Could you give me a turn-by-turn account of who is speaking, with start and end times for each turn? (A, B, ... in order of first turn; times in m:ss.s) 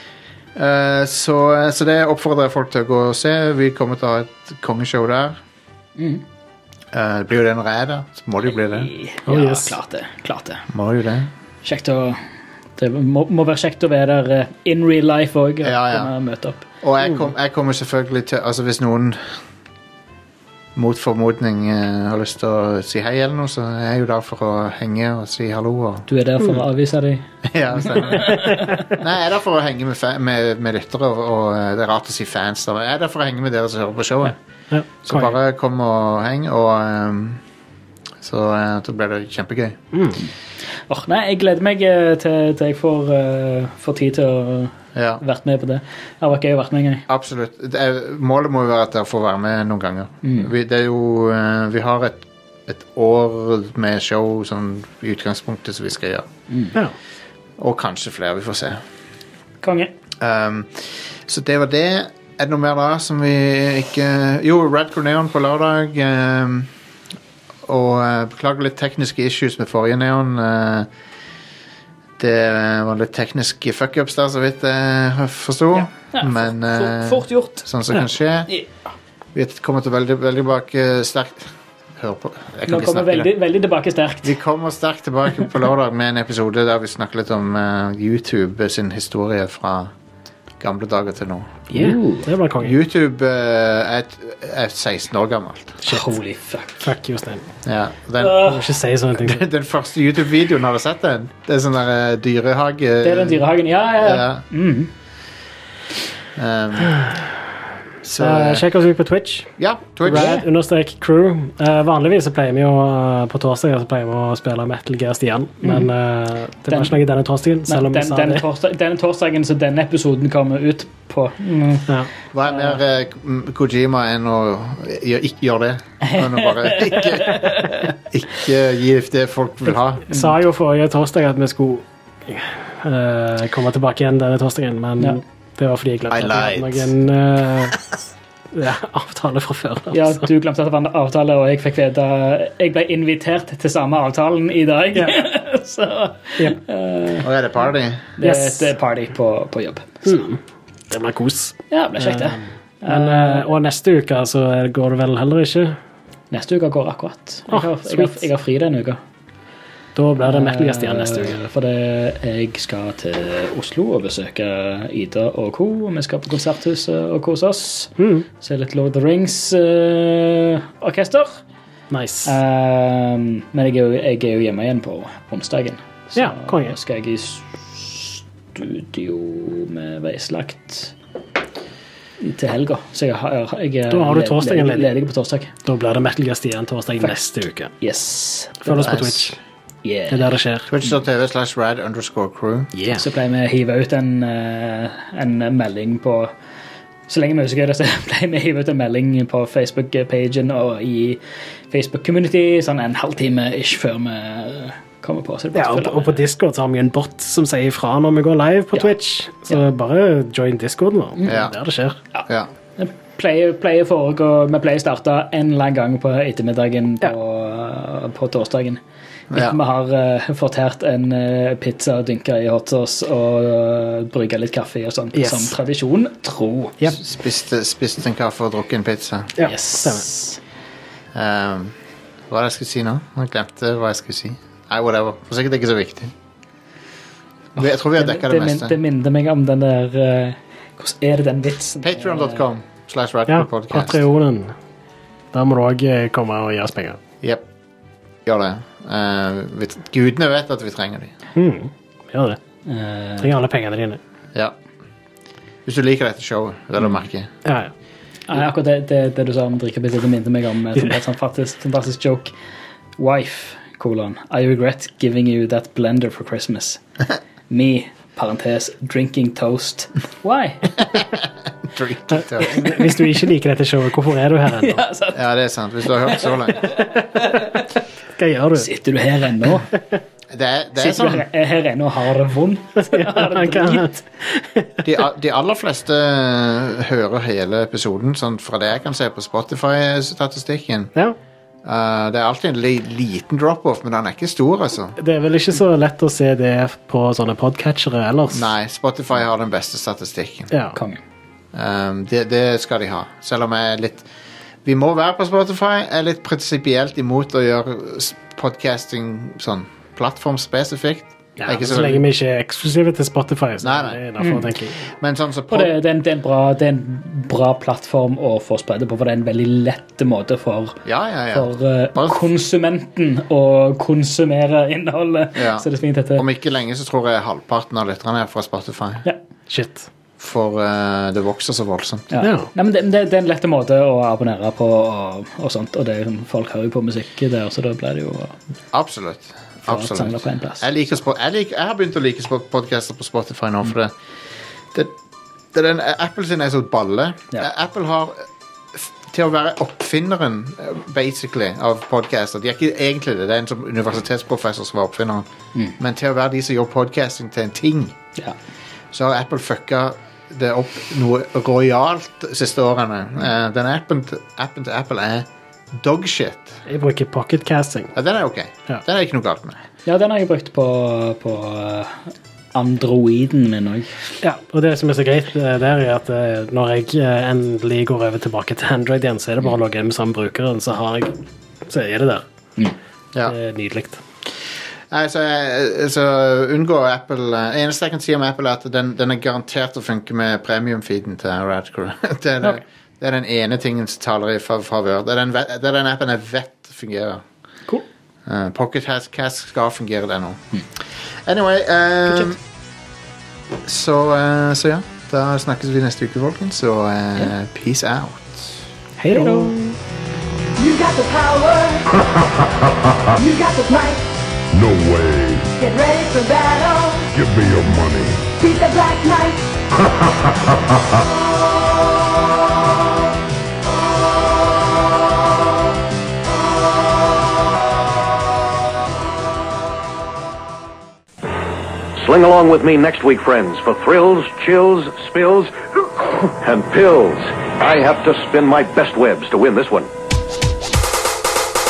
0:00.6-0:05.4 A
0:06.0-0:06.2 B
0:06.9-0:08.9 A
0:08.7-0:10.7 B
0:09.3-0:09.8 C
0:10.7-0:11.3 A
0:11.6-0:12.2 B
0:12.8-0:16.6 B
0:15.6-0:16.1 A
0:16.8-0:19.4 A
0:20.8-0:26.1 A
0:26.1-0:28.9 B
0:27.5-0:34.4 A
0:34.7-0:35.3 C
0:35.0-0:37.4 A
0:38.2-0:39.8 A
0:40.9-0:47.1 B
0:44.9-0:45.2 A
0:47.1-0:56.3 A
0:50.2-0:50.5 B
0:56.5-0:56.8 B
0:57.6-0:58.8 A
0:59.6-0:59.9 B
1:00.2-1:06.7 A
1:07.7-1:10.9 A
1:12.2-1:18.5 A
1:15.7-1:17.7 B
1:18.5-1:18.9 B
1:19.3-1:23.3 A
1:22.7-1:24.4 B
1:24.2-1:29.9 A
1:30.6-1:31.7 A
1:31.7-1:32.3 B
1:31.7-1:32.8 C
1:32.6-1:35.8 A
1:35.8-1:36.2 C
1:35.9-1:36.9 B
1:36.8-1:37.5 C
1:37.6-1:38.5 A
1:38.2-1:38.7 B
1:38.4-1:39.5 C
1:39.2-1:43.4 A
1:43.0-1:44.9 B
1:44.0-1:44.4 A
1:46.4-1:47.0 A
1:48.0-1:48.6 A
1:48.2-1:58.4 C
1:49.6-1:50.4 A
1:50.0-1:50.4 B
1:56.7-1:57.0 B
1:57.7-2:01.9 B
2:02.3-2:10.0 A
2:02.5-2:02.8 B
2:06.1-2:07.9 B
2:10.1-2:17.8 C
2:16.1-2:16.9 A
2:18.5-2:20.3 C
2:19.9-2:27.3 B
2:25.0-2:25.2 C
2:27.2-2:28.1 A
2:28.2-2:30.1 B
2:28.2-2:28.7 C
2:30.0-2:30.4 C
2:30.9-2:35.8 C
2:31.7-2:33.5 B
2:36.3-2:39.0 B
2:37.5-2:38.2 C
2:40.0-2:41.4 C
2:40.2-2:51.4 B
2:48.0-2:48.3 C
2:51.9-2:52.4 C
2:52.3-3:00.9 B
2:56.2-2:56.8 C
3:02.2-3:05.5 B
3:03.9-3:04.9 C
3:05.6-3:07.7 C
3:07.7-3:09.2 B
3:08.6-3:09.4 C
3:08.9-3:09.2 A
3:09.8-3:10.3 B
3:10.1-3:10.7 C
3:10.7-3:12.7 A
3:12.7-3:13.0 C
3:13.0-3:16.3 B
3:17.1-3:26.2 B
3:25.5-3:32.0 C
3:31.3-3:31.5 A
3:32.8-3:38.8 B
3:39.3-3:39.6 A
3:39.3-3:46.8 B
3:45.2-3:45.6 C
3:47.0-3:49.3 A
3:49.4-3:50.1 C
3:49.4-3:50.4 B
3:51.1-3:51.8 A
3:52.3-3:56.1 A
3:57.6-3:58.8 A
3:57.6-4:02.4 B
4:01.8-4:04.0 A
4:03.3-4:04.5 C
4:05.3-4:07.0 C
4:07.2-4:07.5 A
4:08.2-4:11.1 A
4:11.4-4:12.4 C
4:12.7-4:13.3 B
4:13.2-4:14.0 C
4:15.7-4:17.3 A
4:17.4-4:17.7 C
4:18.3-4:22.3 B
4:23.0-4:26.8 B
4:27.5-4:31.0 B
4:30.8-4:32.7 A
4:32.4-4:34.8 C
4:34.6-4:35.2 B
4:35.1-4:36.8 A
4:36.1-4:37.7 B
4:36.8-4:37.4 C
4:38.2-4:38.7 C
4:38.6-4:39.7 B
4:40.3-4:41.2 A
4:40.8-4:44.0 B
4:42.8-4:44.9 C
4:44.8-4:50.9 A
4:51.6-4:55.0 A
4:55.0-4:58.5 C
4:58.3-5:00.5 A
5:00.5-5:00.8 C
5:00.8-5:01.0 B
5:01.5-5:04.1 A
5:04.6-5:12.1 A
5:11.4-5:14.9 C
5:13.6-5:14.0 A
5:15.0-5:15.7 A
5:15.5-5:20.8 B
5:20.8-5:22.2 A
5:21.3-5:26.2 B
5:25.4-5:29.0 A
5:29.5-5:29.9 C
5:30.2-5:32.1 A
5:32.1-5:38.4 B
5:32.2-5:32.5 C
5:38.7-5:43.9 A
5:39.7-5:40.7 B
5:45.5-5:55.3 A
5:55.8-5:58.0 A
5:58.9-6:06.6 A
6:06.7-6:07.9 C
6:08.0-6:09.6 A
6:09.9-6:13.9 B
6:14.2-6:21.2 C
6:21.7-6:22.2 C
6:23.3-6:24.0 C
6:24.9-6:37.3 A
6:38.3-6:42.4 A
6:43.6-6:48.7 A
6:49.0-6:49.7 C
6:49.1-6:49.6 B
6:50.6-6:51.9 D
6:53.2-6:54.0 D
6:54.5-6:55.5 E
6:55.6-6:57.1 D
6:57.1-6:58.3 E
6:58.4-6:59.5 D
7:12.0-7:19.9 F